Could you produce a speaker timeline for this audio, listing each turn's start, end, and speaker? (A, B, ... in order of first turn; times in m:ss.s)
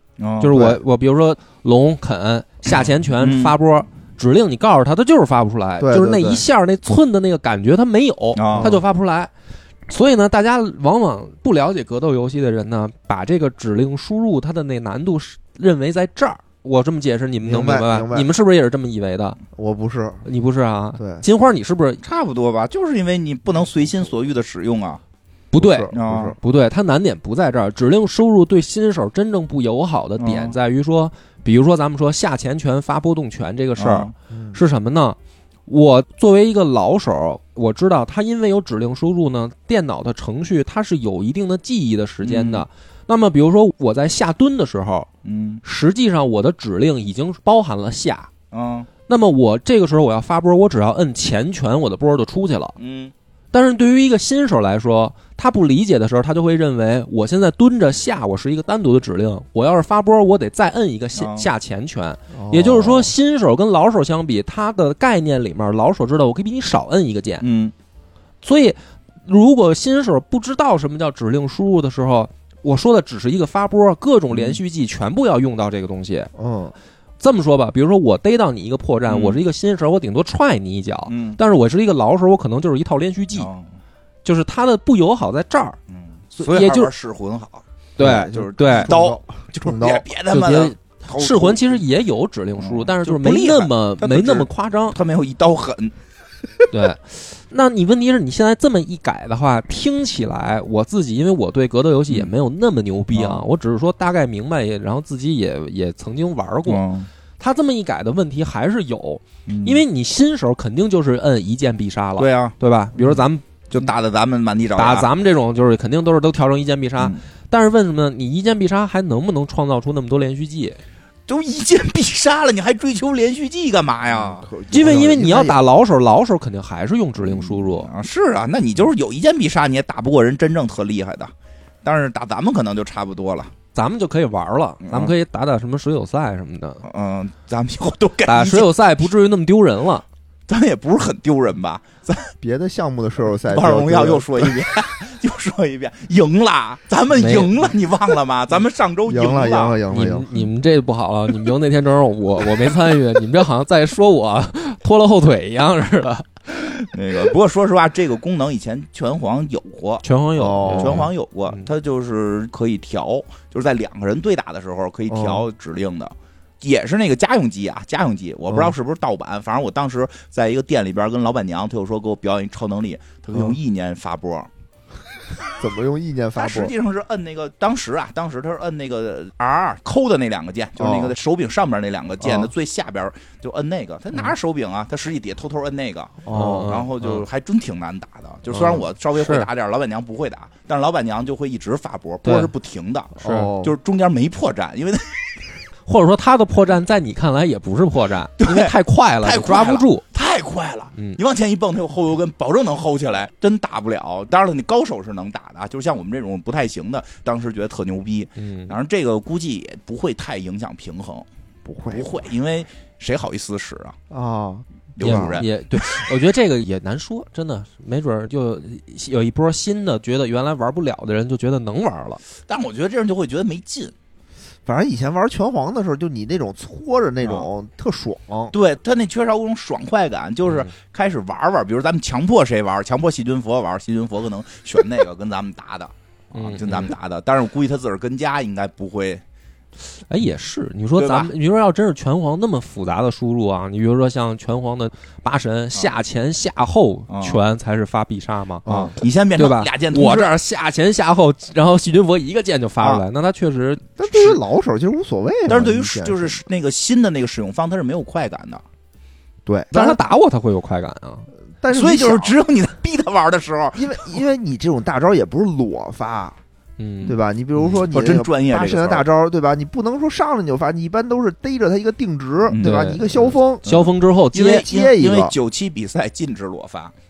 0:00.2-0:00.6 A
0:00.4-0:09.3 B
0:00.5-0:00.8 C
0:03.2-0:03.6 A
0:05.8-0:06.4 C
0:08.4-0:08.8 A
0:08.5-0:08.8 C
0:09.9-0:19.4 B
0:17.4-0:18.3 C
0:19.5-0:20.3 C
0:20.2-0:22.0 B
0:21.0-0:21.2 C
0:22.0-0:25.0 A
0:25.5-0:45.1 B
0:25.6-0:26.4 C
0:25.9-0:26.4 A
0:30.2-0:30.6 A
0:33.8-0:34.1 A
0:34.3-0:34.6 C
0:42.2-0:42.7 A
0:45.2-0:45.6 A
0:45.6-0:48.3 B
0:48.5-0:48.9 A
0:49.1-0:52.8 B
0:52.8-0:53.1 A
0:53.5-1:07.4 B
1:01.2-1:01.5 A
1:02.3-1:03.1 C
1:07.4-1:07.7 A
1:08.4-1:16.3 B
1:14.3-1:14.6 A
1:16.4-1:16.8 C
1:17.2-1:23.5 B
1:19.1-1:19.4 A
1:21.1-1:21.4 A
1:23.4-1:23.7 A
1:24.2-1:25.8 B
1:25.9-1:31.8 A
1:26.4-1:26.9 B
1:28.0-1:28.9 B
1:28.0-1:30.0 C
1:30.3-1:35.0 B
1:32.6-1:36.0 A
1:36.7-1:46.8 B
1:43.1-1:43.4 A
1:46.7-1:47.1 A
1:47.4-1:53.5 B
1:49.5-1:49.8 A
1:52.2-1:55.1 A
1:54.8-2:00.8 B
2:01.3-2:04.5 A
2:04.1-2:05.6 C
2:04.7-2:07.9 B
2:07.2-2:11.3 A
2:11.8-2:13.5 A
2:13.8-2:16.8 B
2:14.8-2:15.1 A
2:16.8-2:18.8 A
2:18.3-2:20.0 B
2:20.5-2:22.3 A
2:22.4-2:24.6 C
2:23.5-2:29.9 A
2:27.1-2:27.6 B
2:29.1-2:30.3 C
2:29.9-2:36.3 B
2:36.5-2:40.0 A
2:40.0-2:41.7 B
2:40.4-2:41.1 C
2:40.8-2:54.5 A
2:45.1-2:45.5 C
2:48.5-2:48.8 C
2:55.6-2:56.7 C
2:56.4-3:15.4 A
3:00.8-3:01.2 C
3:02.2-3:02.5 C
3:06.2-3:06.8 C
3:06.3-3:07.2 B
3:08.5-3:09.5 B
3:12.2-3:12.5 B
3:13.2-3:13.8 C
3:13.2-3:13.5 B
3:15.9-3:20.0 B
3:18.4-3:31.3 A
3:28.4-3:28.8 B
3:31.7-3:32.1 C
3:31.9-3:34.0 A
3:34.1-3:35.4 C
3:35.0-3:35.5 A
3:35.0-3:42.2 B
3:42.5-3:43.9 A
3:44.7-3:48.5 C
3:48.5-3:59.2 A
3:50.5-3:50.7 B
3:56.3-3:56.9 B
4:00.1-4:14.4 B
4:01.0-4:01.3 A
4:07.1-4:07.4 A
4:08.7-4:09.0 C
4:08.7-4:10.3 A
4:14.0-4:16.4 C
4:15.5-4:18.6 A
4:19.5-4:20.0 C
4:19.7-4:21.3 B
4:21.6-4:22.4 C
4:21.7-4:24.1 A
4:23.8-4:26.4 C
4:26.8-4:27.2 B
4:27.0-4:33.6 C
4:27.7-4:29.1 A
4:32.5-4:33.0 A
4:32.6-4:34.6 B
4:33.6-4:36.9 A
4:34.3-4:35.4 C